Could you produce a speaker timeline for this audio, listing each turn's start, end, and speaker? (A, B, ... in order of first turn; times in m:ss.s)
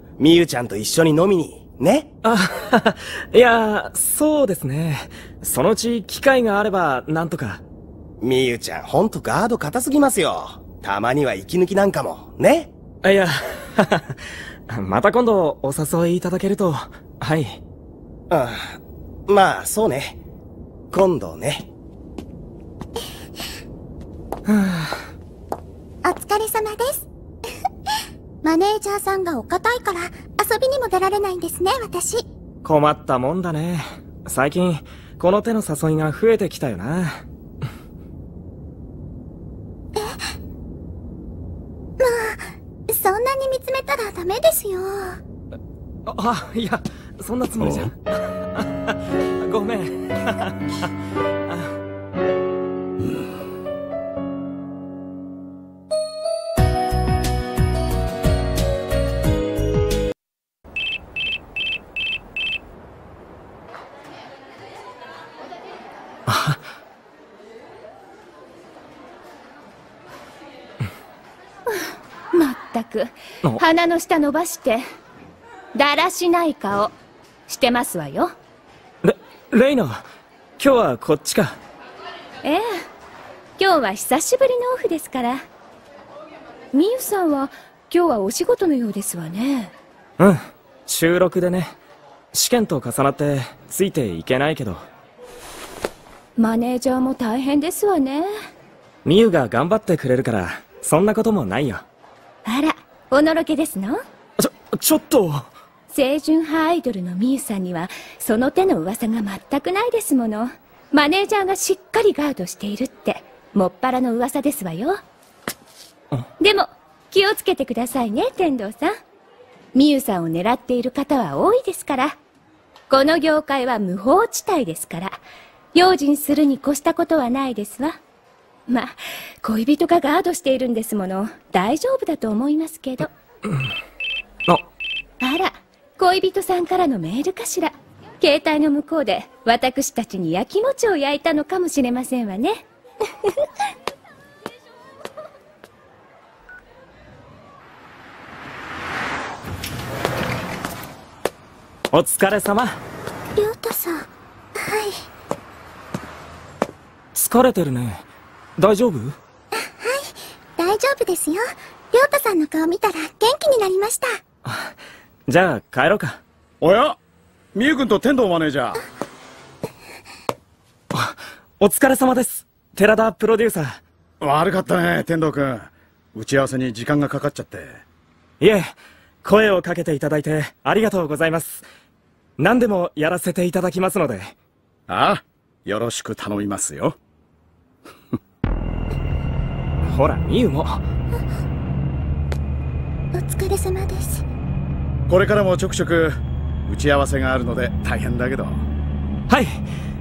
0:00.2-0:00.9 A
0:00.5-0:02.0 B
0:02.2-0:07.6 C
0:08.2-0:12.7 B
0:13.0-0:14.2 C
0:14.7-0:17.6 C
0:18.3-0:18.8 B
0:19.3-0:20.2 B
0:20.9-0:21.6 B
0:24.5-0:25.0 C
0:26.0-0:27.1 D
0:28.4-0:32.2 D
0:32.6-0:37.2 C
0:40.0-0:40.3 D
0:42.0-0:45.2 D
0:46.1-0:50.9 C
1:06.3-1:06.6 C
1:11.7-1:14.8 E
1:15.7-1:16.9 E
1:17.5-1:18.3 E
1:19.0-1:20.0 C
1:20.6-1:21.6 C
1:23.6-1:25.5 E
1:26.7-1:29.7 E
1:30.2-1:31.8 C
1:32.3-1:34.8 C
1:36.4-1:38.3 E
1:39.0-1:41.8 C
1:42.4-1:44.0 E
1:44.4-1:45.5 C
1:45.9-1:55.0 E
1:56.4-1:58.9 E
1:59.7-2:02.2 E
2:02.9-2:05.2 E
2:05.7-2:08.0 E
2:08.7-2:13.1 E
2:15.2-2:23.5 E
2:31.9-2:32.8 C
2:33.4-2:35.0 D
2:37.1-2:38.0 C
2:38.6-2:39.2 C
2:39.6-2:44.2 D
2:44.4-2:44.7 C
2:45.3-2:46.2 C
2:46.6-2:47.0 A
2:47.5-2:48.8 A
2:50.9-2:53.8 C
2:54.2-2:57.8 A
2:58.4-3:01.6 C
3:02.4-3:04.3 C
3:04.9-3:07.0 A
3:09.8-3:10.8 C
3:13.1-3:14.2 D
3:15.1-3:18.7 A
3:19.3-3:19.7 C